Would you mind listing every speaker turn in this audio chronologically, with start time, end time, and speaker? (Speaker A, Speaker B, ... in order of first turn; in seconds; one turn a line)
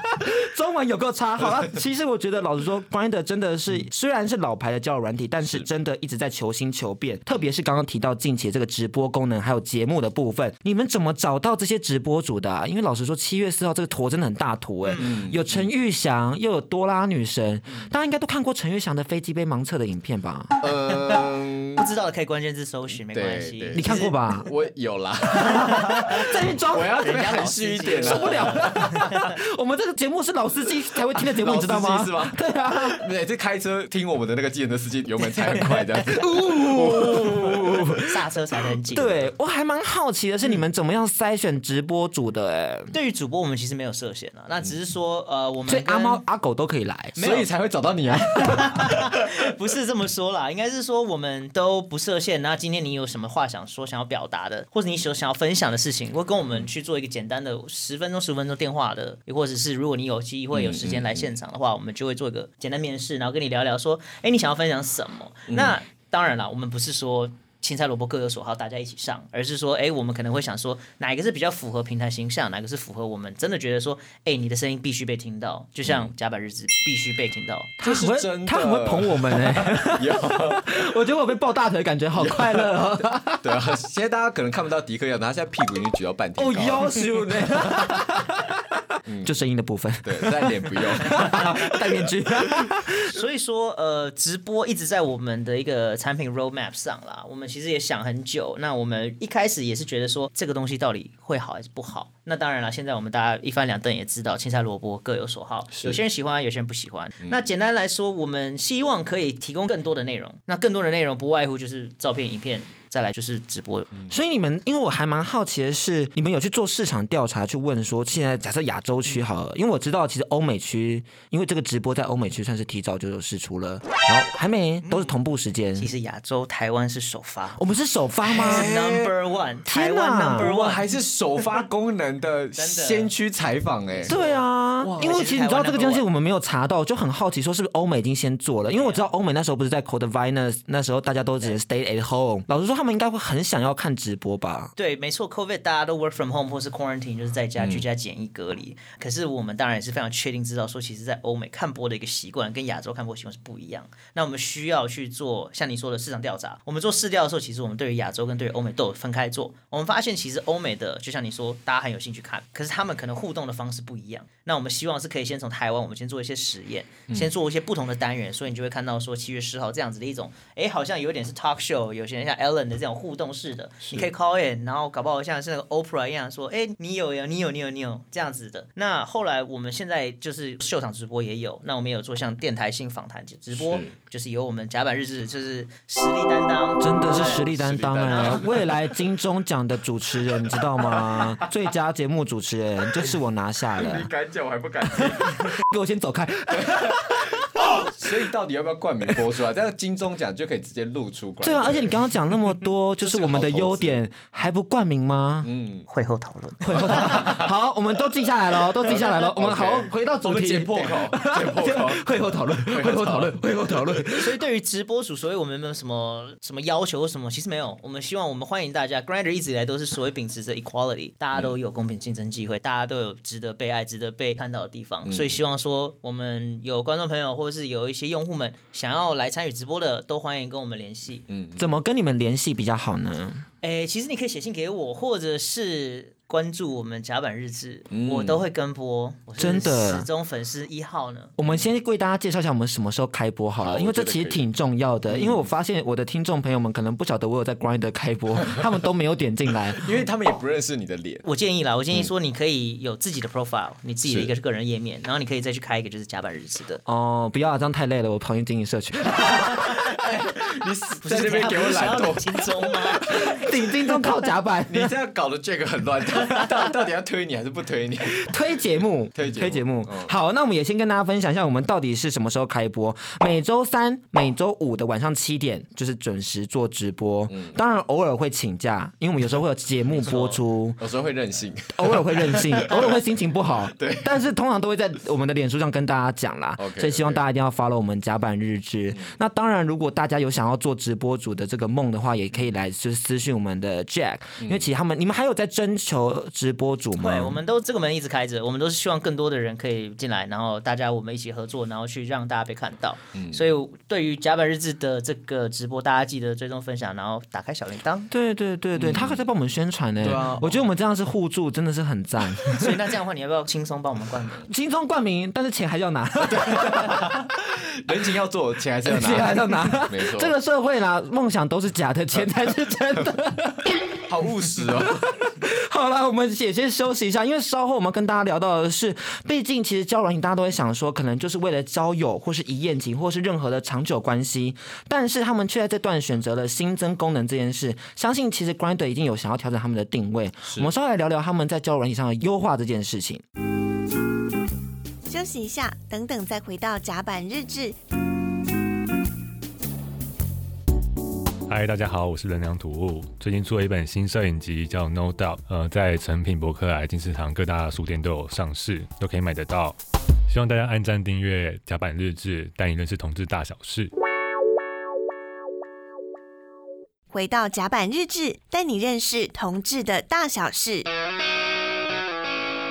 Speaker A: 0.4-20.5
Speaker B: 14.8-15.1
Speaker C: 15.0-15.7
Speaker C: 20.6-21.8
Speaker B: 21.8-24.1
Speaker C: 23.1-25.8
Speaker A: 23.8-24.5
Speaker A: 25.4-27.1
Speaker C: 26.7-28.9
Speaker B: 27.0-29.0
Speaker A: 28.0-33.0
Speaker C: 31.3-37.8
Speaker A: 36.1-37.8
Speaker B: 38.1-39.3
Speaker A: 38.9-42.9
Speaker B: 42.9-46.2
Speaker A: 45.7-47.1
Speaker B: 47.2-47.5
Speaker C: 47.2-49.1
Speaker B: 48.4-77.8
Speaker C: 60.5-61.3
Speaker C: 65.5-65.8
Speaker C: 75.9-76.1
Speaker A: 77.8-83.5
Speaker C: 77.8-80.8
Speaker C: 82.2-87.9
Speaker A: 86.4-88.5
Speaker C: 89.1-89.3
Speaker A: 89.2-93.1
Speaker C: 90.0-91.6
Speaker B: 93.1-113.9
Speaker A: 114.1-125.9
Speaker B: 124.8-125.1
Speaker B: 125.8-127.6
Speaker A: 127.6-128.7
Speaker B: 128.3-130.8
Speaker C: 128.4-129.1
Speaker A: 129.7-130.5
Speaker C: 130.4-134.2
Speaker B: 132.6-133.1
Speaker B: 133.9-134.4
Speaker A: 134.1-144.7
Speaker C: 134.8-135.2
Speaker B: 135.0-136.0
Speaker B: 138.7-139.0
Speaker B: 144.8-187.4
Speaker C: 183.5-183.9
Speaker A: 186.8-194.1
Speaker C: 187.2-188.8
Speaker B: 188.1-188.4
Speaker C: 193.8-195.5
Speaker A: 195.6-197.3
Speaker C: 196.5-202.0
Speaker A: 201.4-205.5
Speaker C: 203.0-204.0
Speaker C: 205.4-205.9
Speaker B: 205.9-207.2
Speaker A: 206.6-214.3
Speaker C: 207.0-207.5
Speaker C: 208.8-212.1
Speaker C: 212.6-213.4
Speaker B: 214.2-231.2
Speaker C: 225.1-225.4
Speaker C: 231.3-231.7
Speaker A: 231.6-233.5
Speaker B: 233.6-241.3
Speaker C: 237.9-238.4
Speaker A: 239.4-240.1
Speaker A: 241.4-249.8
Speaker C: 243.6-244.4
Speaker C: 245.1-245.5
Speaker C: 249.8-251.2
Speaker B: 251.2-256.8
Speaker A: 256.9-259.7
Speaker C: 260.0-263.4
Speaker B: 261.0-263.1
Speaker A: 263.1-264.9
Speaker C: 264.7-268.4
Speaker A: 268.2-280.8
Speaker C: 269.1-270.1
Speaker C: 277.3-277.6
Speaker B: 280.0-280.3
Speaker C: 280.8-283.0
Speaker A: 281.7-297.4
Speaker C: 283.7-284.2
Speaker C: 286.6-287.2
Speaker C: 294.4-294.7
Speaker B: 297.0-308.1
Speaker A: 308.1-312.7
Speaker C: 308.8-309.2
Speaker C: 310.0-310.6
Speaker B: 312.6-314.5
Speaker A: 314.5-317.0
Speaker C: 316.3-320.3
Speaker A: 318.9-323.7
Speaker C: 324.1-325.1
Speaker A: 325.4-343.2
Speaker D: 345.1-347.8
Speaker E: 351.5-359.8
Speaker E: 360.3-363.9
Speaker D: 367.1-370.9